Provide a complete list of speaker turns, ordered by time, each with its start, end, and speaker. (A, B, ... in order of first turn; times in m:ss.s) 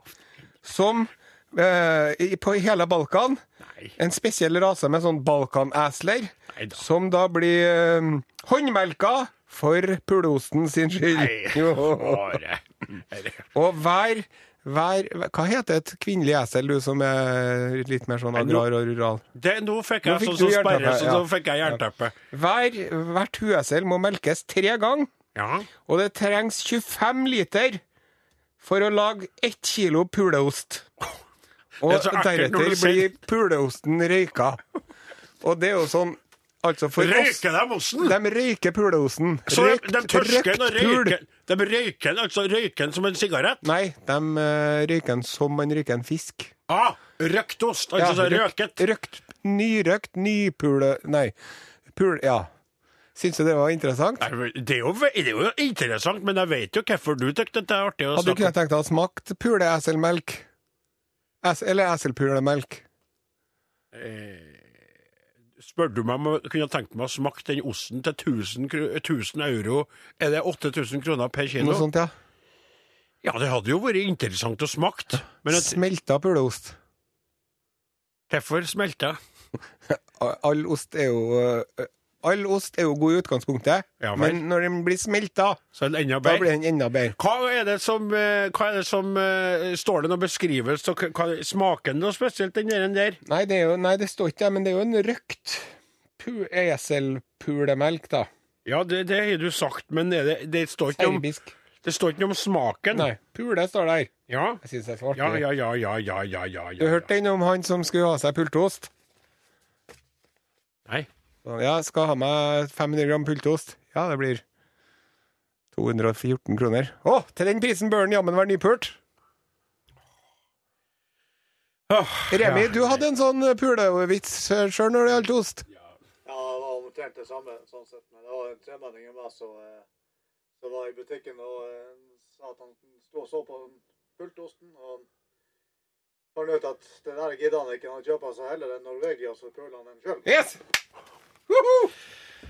0:00.6-0:03.4 A
0:04.0-0:12.4 A
0:06.6-0:06.8 B
0:11.1-0:13.5 B
0:13.5-0:19.2 A
0:18.4-0:18.6 B
0:19.4-0:22.2 B
0:20.0-0:21.8 A
0:22.3-0:25.1 A
0:25.4-0:25.7 B
0:25.8-0:27.8 A
0:28.6-0:30.9 A
0:31.8-0:34.6 A
0:31.8-0:33.1 B
0:35.4-0:37.4 A
0:37.0-0:38.2 B
0:38.0-0:41.2 A
0:39.5-0:43.6 B
0:43.6-0:46.5 A
0:46.7-0:48.8 B
0:48.0-0:51.3 A
0:51.9-0:52.5 A
0:53.2-0:54.3 A
0:54.2-0:58.5 B
0:58.2-1:00.5 A
1:01.4-1:02.8 A
1:03.9-1:04.8 B
1:05.6-1:11.9 B
1:11.6-1:12.1 A
1:13.2-1:15.8 B
1:15.5-1:16.8 A
1:18.3-1:19.2 B
1:19.9-1:25.7 A
1:24.0-1:24.4 B
1:25.8-1:26.5 B
1:26.2-1:27.2 A
1:27.2-1:33.2 B
1:33.2-1:38.3 A
1:38.6-1:41.3 B
1:41.0-1:41.5 A
1:41.8-1:43.1 B
1:42.9-1:45.4 A
1:44.3-1:44.6 B
1:45.2-1:47.1 B
1:46.8-1:48.9 A
1:51.4-1:54.4 A
1:55.7-1:59.0 A
2:01.9-2:03.0 B
2:02.3-2:05.7 A
2:06.2-2:09.9 C
2:10.6-2:15.1 C
2:16.4-2:20.3 C
2:20.3-2:20.6 A
2:21.5-2:21.9 A